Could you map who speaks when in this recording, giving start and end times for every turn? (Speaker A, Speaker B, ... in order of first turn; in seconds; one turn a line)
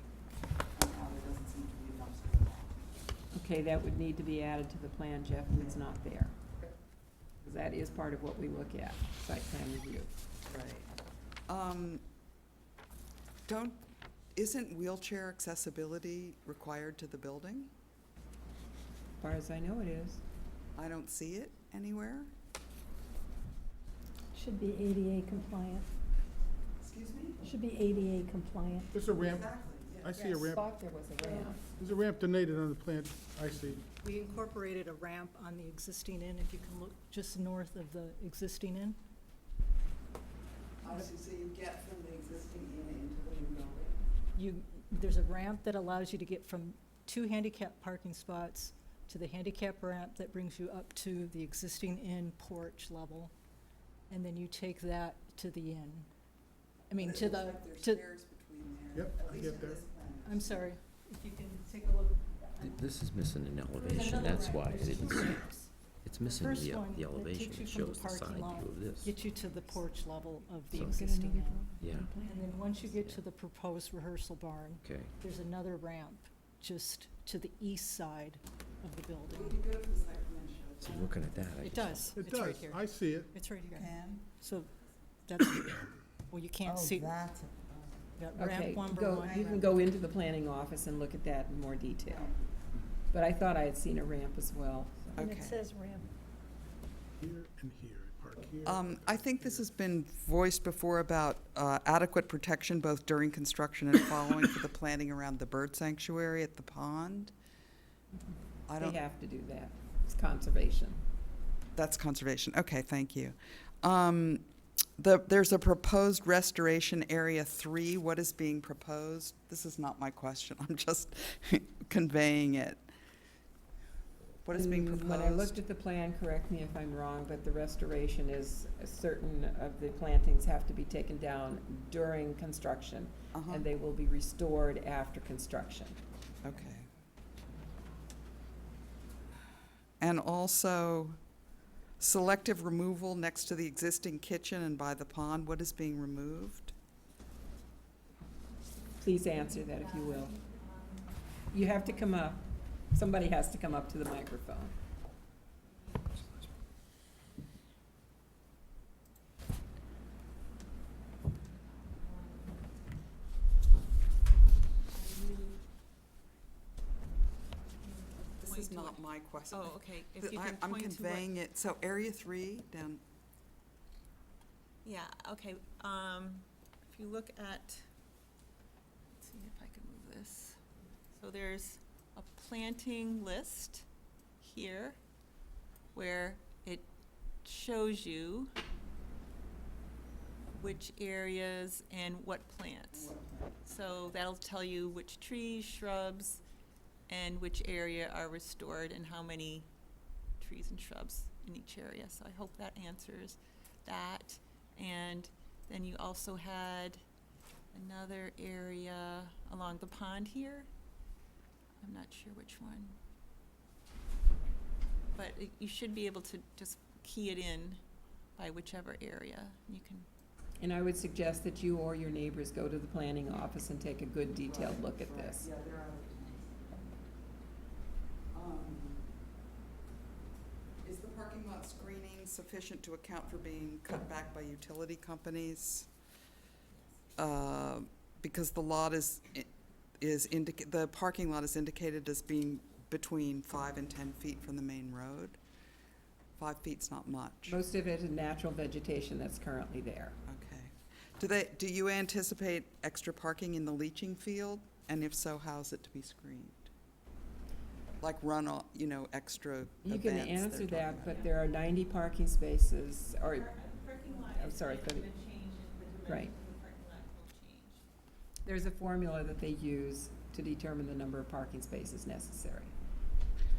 Speaker A: 0.8-2.8
Speaker B: 3.3-6.4
Speaker A: 5.5-5.8
Speaker B: 7.4-10.1
Speaker A: 10.5-10.9
Speaker A: 11.5-12.0
Speaker A: 13.5-17.7
Speaker B: 19.2-20.2
Speaker A: 20.8-22.3
Speaker C: 24.3-25.9
Speaker A: 26.8-27.4
Speaker C: 27.4-28.9
Speaker D: 28.9-30.7
Speaker A: 29.2-30.2
Speaker B: 30.1-31.6
Speaker C: 31.2-31.5
Speaker D: 31.8-33.9
Speaker E: 34.0-39.0
Speaker A: 40.8-44.0
Speaker E: 40.8-41.1
Speaker E: 44.4-53.3
Speaker E: 54.1-56.1
Speaker E: 56.9-58.1
Speaker A: 57.0-60.7
Speaker D: 58.9-59.9
Speaker E: 60.2-62.9
Speaker F: 62.6-65.4
Speaker E: 63.8-79.6
Speaker F: 66.0-69.2
Speaker C: 70.7-72.9
Speaker F: 71.8-72.1
Speaker F: 72.9-73.2
Speaker F: 74.8-75.1
Speaker A: 79.3-81.3
Speaker F: 80.8-82.1
Speaker E: 80.9-84.7
Speaker D: 82.1-83.3
Speaker A: 83.7-84.2
Speaker E: 85.3-87.2
Speaker A: 86.7-88.1
Speaker E: 88.2-89.5
Speaker B: 88.4-92.3
Speaker A: 89.2-89.7
Speaker A: 92.0-92.5
Speaker B: 93.1-95.2
Speaker A: 95.2-95.6
Speaker E: 95.2-96.1
Speaker D: 97.2-99.7
Speaker A: 98.6-107.3
Speaker A: 108.7-109.0
Speaker B: 108.8-111.0
Speaker A: 111.8-114.4
Speaker A: 115.0-122.8
Speaker A: 124.4-125.6
Speaker B: 124.5-136.0
Speaker A: 133.3-133.7
Speaker A: 136.4-136.9
Speaker A: 140.0-141.2
Speaker A: 142.0-146.7
Speaker B: 149.0-150.3
Speaker G: 149.3-152.5
Speaker B: 151.5-152.4
Speaker B: 152.9-154.8
Speaker G: 155.6-156.3
Speaker G: 161.7-162.7
Speaker G: 164.9-165.6
Speaker G: 167.8-171.3
Speaker A: 168.4-173.0
Speaker G: 174.8-177.8
Speaker G: 179.2-180.6
Speaker G: 181.2-183.9
Speaker G: 184.4-185.0
Speaker G: 185.9-186.9
Speaker G: 187.4-188.5
Speaker G: 190.5-196.4
Speaker A: 192.9-194.0
Speaker G: 197.1-199.7
Speaker G: 200.4-207.0
Speaker G: 207.7-210.7
Speaker G: 211.8-213.0
Speaker G: 215.1-217.8
Speaker G: 218.4-220.1
Speaker B: 220.6-225.5
Speaker A: 224.4-226.6
Speaker A: 228.3-229.1
Speaker A: 230.8-235.9
Speaker A: 237.2-245.4
Speaker A: 246.4-247.6
Speaker B: 247.5-250.2
Speaker A: 250.3-256.7
Speaker A: 258.0-261.3
Speaker B: 259.8-263.6
Speaker G: 263.3-267.8
Speaker B: 264.1-265.1
Speaker B: 266.1-266.3
Speaker B: 268.4-272.8